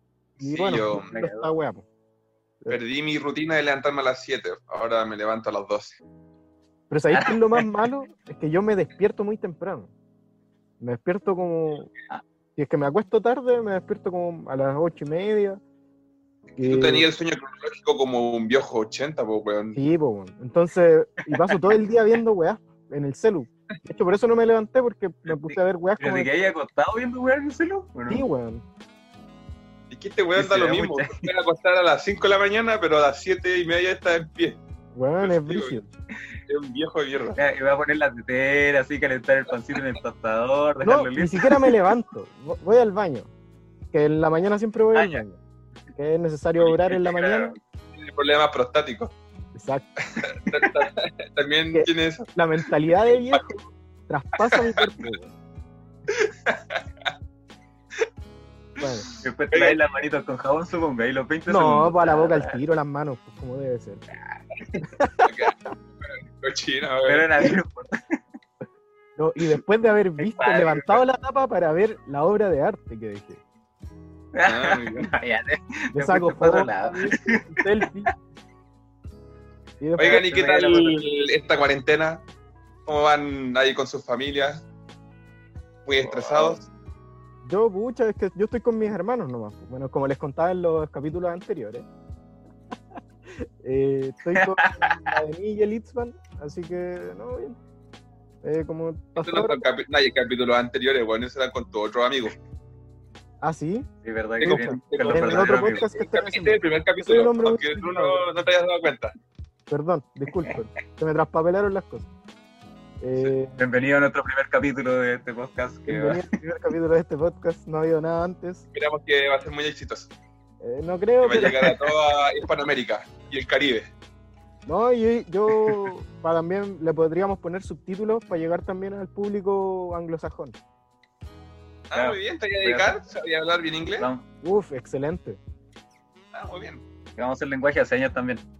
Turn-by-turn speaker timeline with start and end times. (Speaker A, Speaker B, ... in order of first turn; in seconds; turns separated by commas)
Speaker A: 0.4-1.1, Speaker B: 0.4-1.9, Speaker C: 0.8-1.5, Speaker A: 2.7-6.0, Speaker B: 6.9-9.9, Speaker C: 7.1-7.7, Speaker B: 10.8-11.9, Speaker B: 12.6-15.6, Speaker A: 16.6-19.8, Speaker B: 16.6-17.1, Speaker B: 19.7-26.3, Speaker C: 21.3-21.7, Speaker C: 25.3-28.2, Speaker B: 28.1-28.6, Speaker A: 29.9-34.6, Speaker C: 30.3-31.3, Speaker B: 34.9-35.9, Speaker A: 35.2-35.8, Speaker A: 36.5-37.4, Speaker C: 37.4-41.7, Speaker B: 40.8-43.3, Speaker B: 43.9-45.4, Speaker A: 44.9-45.2, Speaker B: 45.9-47.5, Speaker C: 46.6-47.6, Speaker A: 47.9-49.1, Speaker B: 49.5-49.9, Speaker A: 50.1-52.3, Speaker B: 51.7-55.3, Speaker A: 53.1-53.4, Speaker A: 54.4-55.1, Speaker A: 56.1-56.8, Speaker A: 58.8-59.8, Speaker B: 58.8-59.0, Speaker C: 59.2-62.6, Speaker B: 61.5-64.0, Speaker C: 64.1-64.8, Speaker B: 64.8-65.5, Speaker A: 65.2-67.3, Speaker C: 67.1-68.2, Speaker B: 69.2-73.4, Speaker C: 70.2-71.0, Speaker C: 74.3-77.8, Speaker A: 74.4-75.1, Speaker B: 75.9-78.1, Speaker B: 79.8-80.2, Speaker C: 80.0-81.0, Speaker A: 80.0-82.2, Speaker A: 82.8-84.6, Speaker A: 85.8-86.6, Speaker C: 86.0-86.6, Speaker B: 87.4-91.9, Speaker B: 93.3-97.6, Speaker C: 94.3-95.0, Speaker B: 98.4-99.6, Speaker A: 99.2-102.3, Speaker B: 103.4-103.9, Speaker C: 104.0-105.9, Speaker A: 104.4-109.1, Speaker B: 104.4-108.2, Speaker B: 109.7-112.1, Speaker B: 113.0-113.5, Speaker C: 113.5-116.3, Speaker B: 115.9-118.6, Speaker A: 118.7-120.1, Speaker B: 120.6-121.6, Speaker A: 121.2-123.9, Speaker B: 124.7-130.5, Speaker A: 131.9-134.1, Speaker C: 131.9-133.0, Speaker C: 133.9-134.2, Speaker B: 134.4-135.4, Speaker A: 136.3-136.8, Speaker C: 137.2-138.4